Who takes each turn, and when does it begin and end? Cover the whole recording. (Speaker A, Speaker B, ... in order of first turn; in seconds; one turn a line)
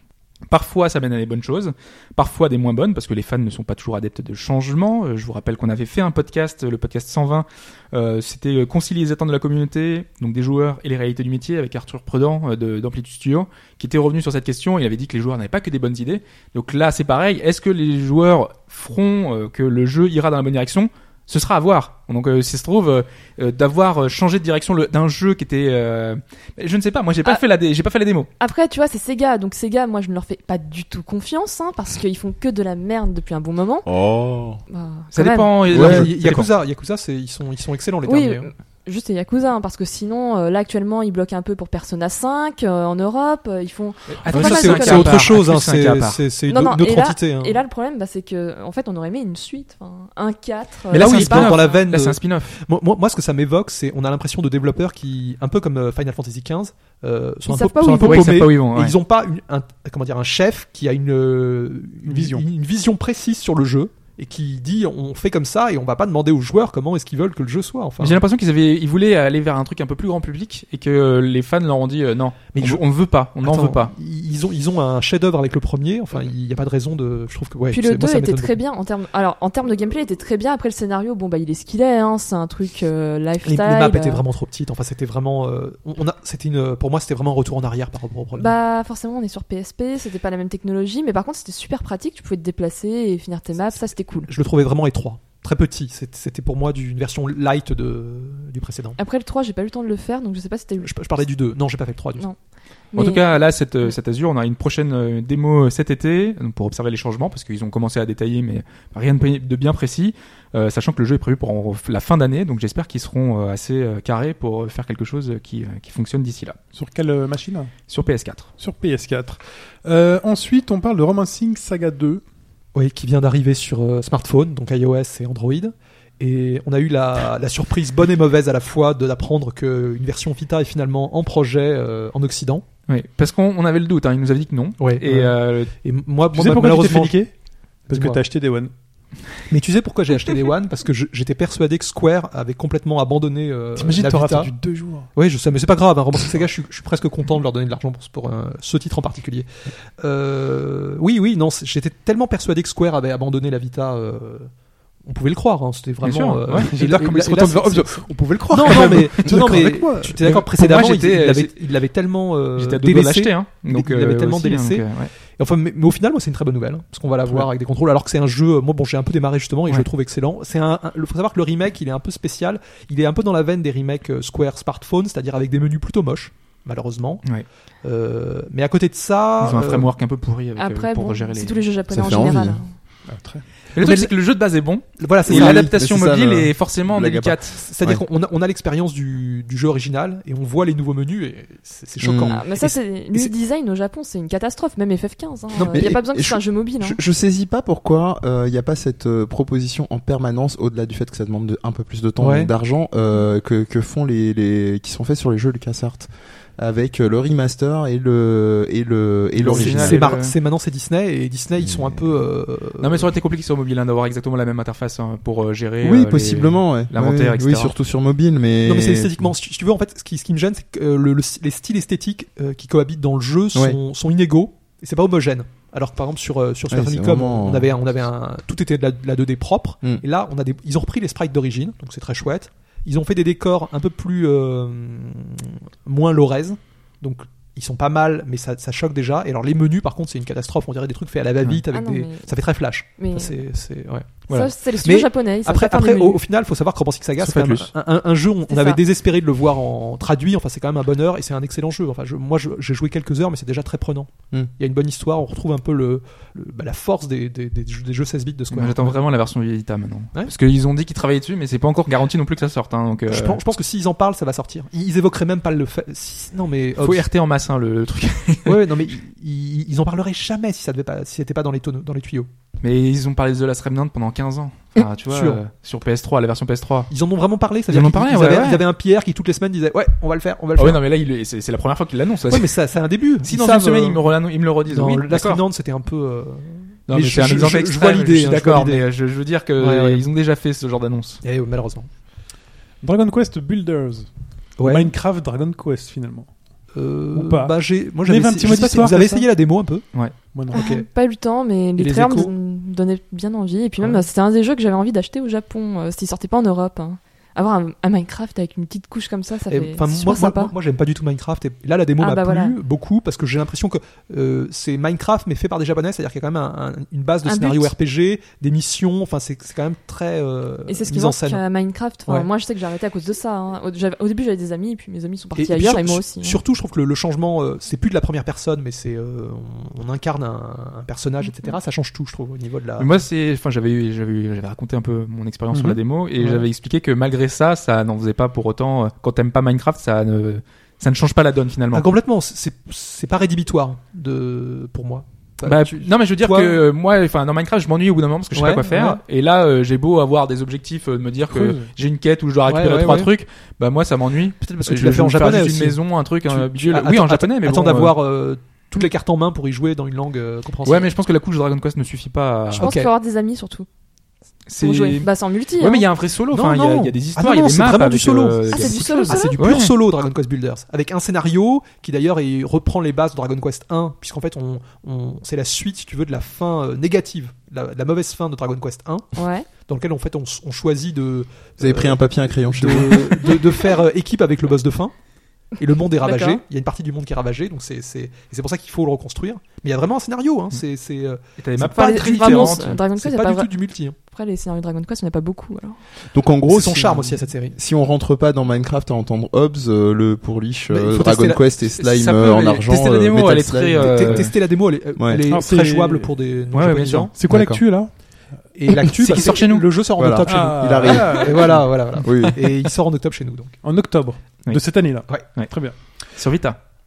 Speaker A: 0.5-28.3
Speaker B: 28.4-33.9
Speaker C: 33.9-34.6
Speaker B: 34.7-35.5
Speaker A: 35.1-36.5
Speaker D: 35.7-38.5
Speaker C: 35.7-36.1
Speaker B: 38.1-45.2
Speaker A: 44.2-46.2
Speaker D: 44.3-47.6
Speaker B: 46.5-51.7
Speaker A: 50.9-52.6
Speaker D: 50.9-68.2
Speaker B: 57.5-58.4
Speaker A: 58.0-59.0
Speaker E: 62.1-62.5
Speaker A: 68.0-73.9
Speaker D: 72.5-72.8
Speaker D: 73.4-78.5
Speaker B: 77.7-84.2
Speaker D: 83.4-88.5
Speaker B: 88.4-94.3
Speaker D: 94.3-99.0
Speaker B: 99.0-100.9
Speaker D: 100.8-102.3
Speaker B: 102.9-103.2
Speaker A: 103.0-116.6
Speaker E: 116.8-117.7
Speaker A: 117.9-118.5
Speaker E: 118.6-122.2
Speaker D: 122.7-132.6
Speaker A: 132.9-135.7
Speaker D: 134.8-137.2
Speaker E: 136.3-137.3
Speaker E: 137.9-138.7
Speaker D: 137.9-138.2
Speaker D: 139.5-144.5
Speaker E: 143.8-145.1
Speaker D: 145.1-149.5
Speaker D: 150.0-154.5
Speaker D: 155.1-177.2
Speaker A: 156.0-156.7
Speaker E: 156.5-160.3
Speaker A: 160.2-161.6
Speaker A: 162.6-165.1
Speaker D: 177.8-179.9
Speaker A: 179.4-181.6
Speaker B: 180.6-182.7
Speaker C: 181.9-182.6
Speaker E: 183.1-183.4
Speaker A: 183.8-187.6
Speaker D: 183.8-184.1
Speaker D: 185.0-185.7
Speaker C: 185.3-188.0
Speaker D: 187.6-193.3
Speaker C: 192.0-192.4
Speaker B: 192.3-197.0
Speaker C: 195.6-210.1
Speaker D: 202.2-202.5
Speaker A: 209.4-210.3
Speaker D: 209.4-213.1
Speaker C: 211.6-212.0
Speaker A: 212.8-217.7
Speaker C: 215.8-219.3
Speaker D: 218.6-244.2
Speaker C: 226.7-227.7
Speaker B: 241.7-242.3
Speaker B: 243.0-243.3
Speaker B: 244.3-246.2
Speaker D: 244.8-259.0
Speaker A: 247.2-247.7
Speaker B: 248.5-248.8
Speaker A: 258.5-263.4
Speaker D: 263.1-267.0
Speaker A: 266.8-268.8
Speaker D: 268.5-272.3
Speaker A: 272.6-276.9
Speaker D: 275.1-275.4
Speaker D: 276.9-280.8
Speaker A: 277.7-278.7
Speaker A: 280.6-282.5
Speaker D: 282.3-284.0
Speaker A: 283.2-285.4
Speaker D: 284.7-288.9
Speaker A: 286.9-291.2
Speaker D: 289.6-290.1
Speaker D: 291.2-291.9
Speaker E: 292.8-294.1
Speaker D: 294.6-294.9
Speaker E: 294.6-296.3
Speaker D: 296.7-299.9
Speaker E: 297.1-299.3
Speaker E: 300.3-300.6
Speaker D: 300.5-300.9
Speaker B: 300.5-310.5
Speaker D: 301.8-302.3
Speaker D: 309.5-321.4
Speaker B: 312.0-312.6
Speaker B: 317.2-317.7
Speaker B: 320.7-326.4
Speaker D: 325.4-332.9
Speaker A: 332.8-341.9
Speaker E: 335.5-335.8
Speaker D: 336.2-336.5
Speaker D: 341.7-346.6
Speaker A: 345.4-358.0
Speaker D: 348.3-349.0
Speaker E: 351.3-351.6
Speaker D: 352.5-353.1
Speaker D: 354.6-360.9
Speaker A: 360.6-362.7
Speaker B: 362.5-363.7
Speaker D: 362.6-362.9
Speaker A: 364.5-369.7
Speaker B: 364.6-365.9
Speaker D: 366.3-384.9
Speaker B: 368.5-369.4
Speaker B: 379.2-379.5
Speaker C: 381.6-383.4
Speaker D: 385.6-394.0
Speaker B: 386.0-386.4
Speaker A: 391.4-392.8
Speaker B: 391.6-395.8
Speaker C: 396.1-404.3
Speaker D: 396.5-397.6
Speaker D: 400.7-401.4
Speaker A: 401.8-404.3
Speaker D: 403.8-407.1
Speaker C: 404.9-405.4
Speaker E: 405.3-406.2
Speaker A: 406.5-407.1
Speaker E: 407.1-407.9
Speaker C: 407.3-407.6
Speaker D: 408.5-413.6
Speaker A: 408.7-409.7
Speaker C: 410.0-412.4
Speaker E: 410.3-411.7
Speaker E: 413.6-415.8
Speaker A: 414.5-415.5
Speaker A: 416.1-416.6